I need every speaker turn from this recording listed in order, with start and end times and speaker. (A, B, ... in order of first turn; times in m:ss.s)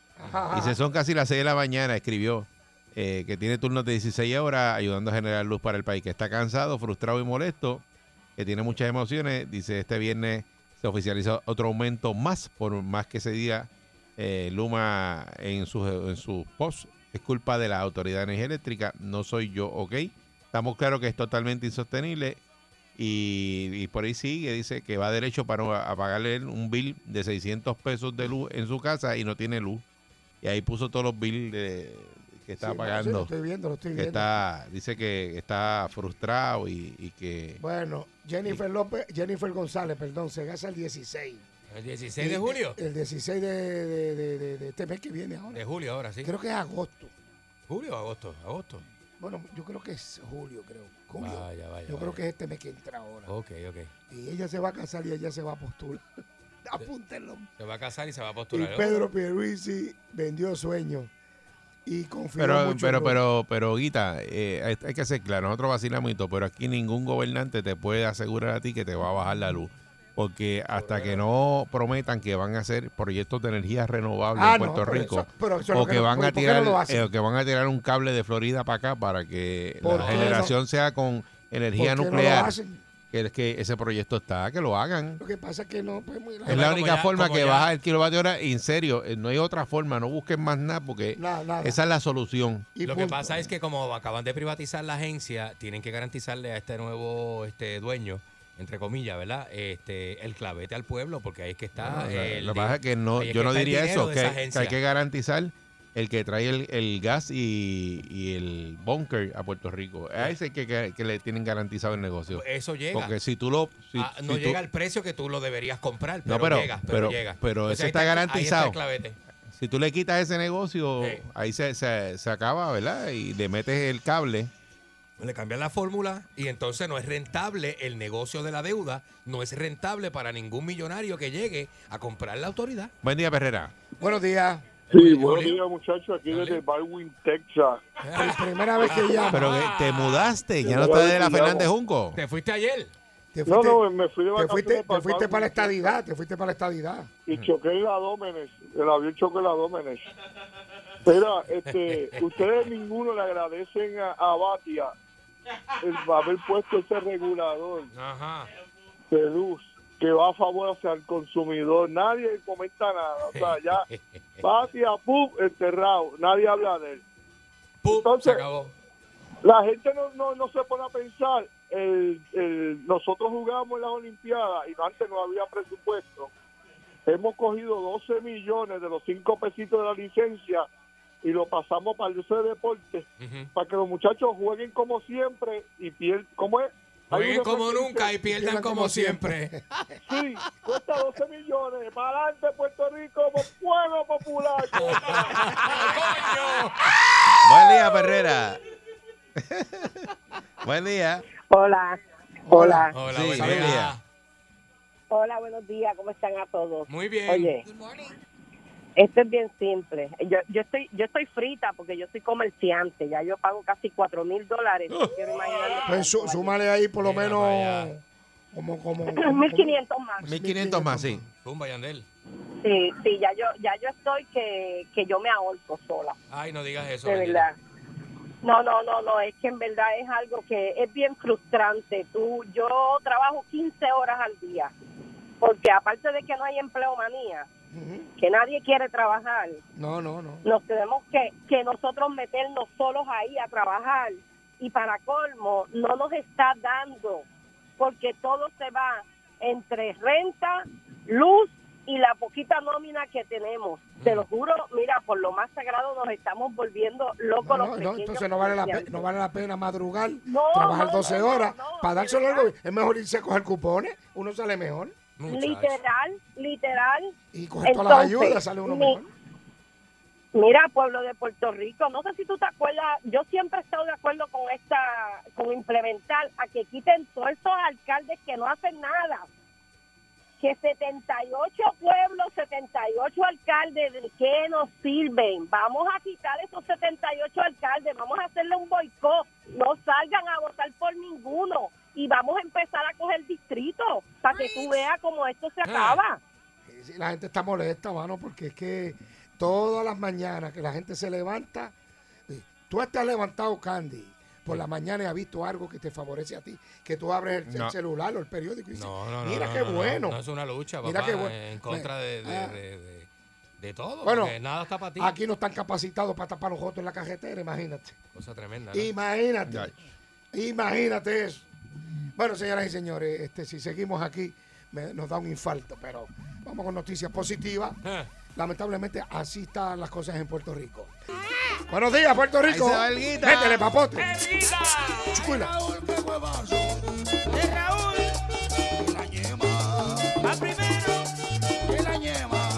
0:00.2-0:00.8 A
0:00.5-0:07.8 B
0:08.4-0:22.4 B
0:23.0-0:29.8 B
0:30.4-0:33.3 B
0:32.6-0:34.3 A
0:33.9-0:37.6 B
0:37.6-0:41.4 A
0:41.7-0:42.8 C
0:42.2-0:45.6 A
0:45.5-0:46.3 C
0:46.2-0:47.1 A
0:47.7-0:48.8 C
0:49.2-0:53.3 A
0:51.1-0:52.2 C
0:53.2-0:53.9 C
0:54.1-0:56.0 A
0:56.6-0:57.5 A
0:57.6-0:59.1 C
0:58.5-1:01.1 A
1:01.8-1:03.2 A
1:02.4-1:22.6 B
1:10.7-1:11.2 C
1:14.3-1:17.0 A
1:19.8-1:20.5 A
1:19.9-1:20.4 C
1:21.8-1:22.8 A
1:23.1-1:25.2 B
1:25.2-1:26.6 A
1:26.4-1:27.7 C
1:26.5-1:32.7 B
1:31.1-1:31.8 A
1:32.7-1:33.5 A
1:32.8-1:44.8 C
1:41.8-1:54.6 B
1:52.3-1:53.1 C
1:53.9-1:59.2 C
1:56.2-1:58.8 B
1:59.5-2:04.5 B
2:01.0-2:01.2 C
2:05.2-2:12.9 C
2:13.0-2:13.7 B
2:14.0-2:14.6 A
2:14.9-2:17.8 D
2:14.9-2:15.6 C
2:16.3-2:16.6 C
2:18.0-2:20.3 C
2:18.2-2:19.5 A
2:19.3-2:22.2 B
2:20.6-2:21.7 D
2:22.1-2:22.9 C
2:23.3-2:23.8 A
2:23.4-2:26.0 D
2:24.3-2:27.1 A
2:27.3-2:30.0 D
2:31.0-2:34.9 D
2:31.6-2:32.4 C
2:35.8-2:37.9 D
2:37.9-2:38.5 C
2:39.1-2:43.8 D
2:43.3-2:44.3 C
2:44.4-2:47.0 D
2:47.8-2:48.7 C
2:47.9-2:48.4 D
2:49.4-2:56.3 D
2:57.0-3:00.6 D
3:01.2-3:08.3 D
3:03.2-3:03.5 C
3:07.1-3:09.6 C
3:08.4-3:09.4 A
3:10.0-3:15.8 D
3:14.8-3:17.0 C
3:17.4-3:18.6 B
3:19.4-3:20.1 B
3:20.6-3:21.3 B
3:21.5-3:22.9 E
3:22.4-3:23.7 A
3:22.9-3:24.0 C
3:23.1-3:24.0 B
3:25.1-3:27.6 E
3:26.9-3:27.6 C
3:29.0-3:36.6 E
3:35.8-3:38.0 A
3:37.0-3:38.0 C
3:38.5-3:41.3 A
3:39.1-3:40.2 E
3:40.2-3:41.2 B
3:41.4-3:42.0 C
3:42.6-3:46.2 E
3:46.3-3:47.5 C
3:47.0-3:47.5 E
3:48.4-3:54.7 E
3:55.4-3:57.5 E
3:57.7-3:58.1 A
3:58.2-3:59.6 E
3:59.8-4:00.4 A
4:00.4-4:07.2 E
4:07.8-4:19.1 E
4:14.0-4:14.3 C
4:17.4-4:24.9 A
4:20.2-4:22.5 E
4:25.2-4:25.8 C
4:25.3-4:29.0 E
4:27.3-4:29.1 A
4:30.3-4:39.3 E
4:40.4-4:56.2 E
4:54.3-4:54.8 C
4:55.6-4:56.0 C
4:56.6-5:01.7 A
5:02.3-5:10.2 A
5:07.5-5:07.7 B
5:08.7-5:13.1 C
5:10.8-5:12.6 A
5:13.6-5:15.1 C
5:14.0-5:14.4 A
5:15.0-5:18.0 A
5:18.1-5:18.9 C
5:18.7-5:19.8 A
5:19.5-5:19.7 B
5:20.3-5:21.5 A
5:22.1-5:27.8 A
5:28.3-5:30.9 A
5:31.6-5:34.1 A
5:32.5-5:33.7 B
5:34.0-5:34.9 C
5:35.1-5:35.6 A